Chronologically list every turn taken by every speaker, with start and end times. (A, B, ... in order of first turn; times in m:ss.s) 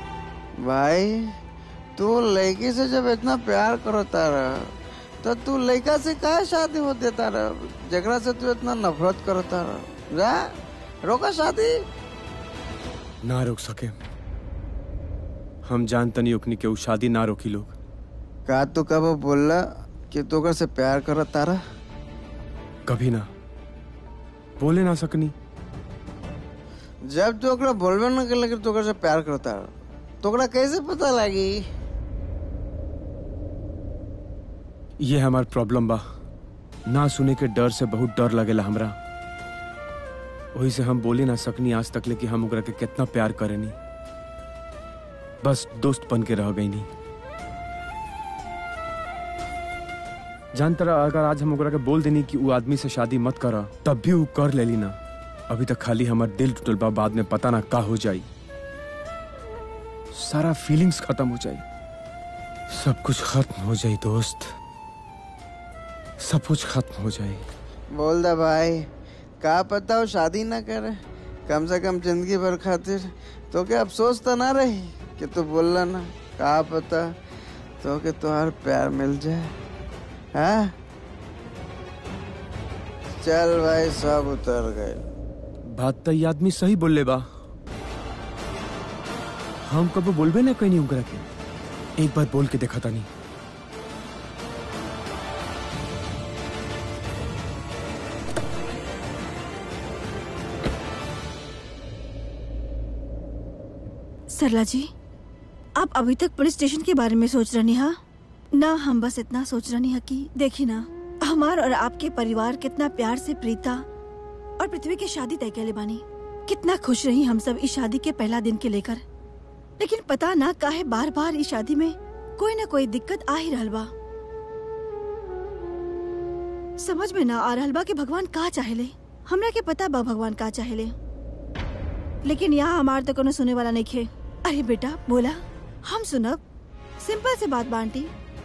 0:00.6-0:01.3 A
0:02.0-0:10.5 A
0:11.0-0:11.8 A
0:13.2-0:14.0 B
0:15.6-0:17.7 B
0:18.5-0:21.6 A
0:22.9-0:23.3 B
0:24.6-0:25.3 B
0:27.1-0:29.7 A
0:30.2-0:31.6 A
0:35.0-0:36.0 B
0:36.9-0:39.0 B
0:40.6-0:43.8 B
0:45.4-0:46.9 B
0:50.5-0:55.0 B
0:55.5-0:58.2 B
1:00.1-1:01.6 B
1:02.7-1:04.5 B
1:06.2-1:07.4 B
1:07.9-1:08.8 A
1:09.4-1:11.0 A
1:11.5-1:17.1 A
1:17.8-1:19.5 A
1:20.4-1:20.7 A
1:23.2-1:25.0 A
1:25.7-1:27.2 B
1:29.7-1:31.2 B
1:32.0-1:33.1 B
1:44.3-1:44.9 C
1:45.8-1:48.0 C
1:48.6-1:53.8 C
1:54.6-1:59.0 C
1:59.8-2:03.9 C
2:06.8-2:10.9 C
2:12.2-2:16.4 C
2:17.0-2:18.1 C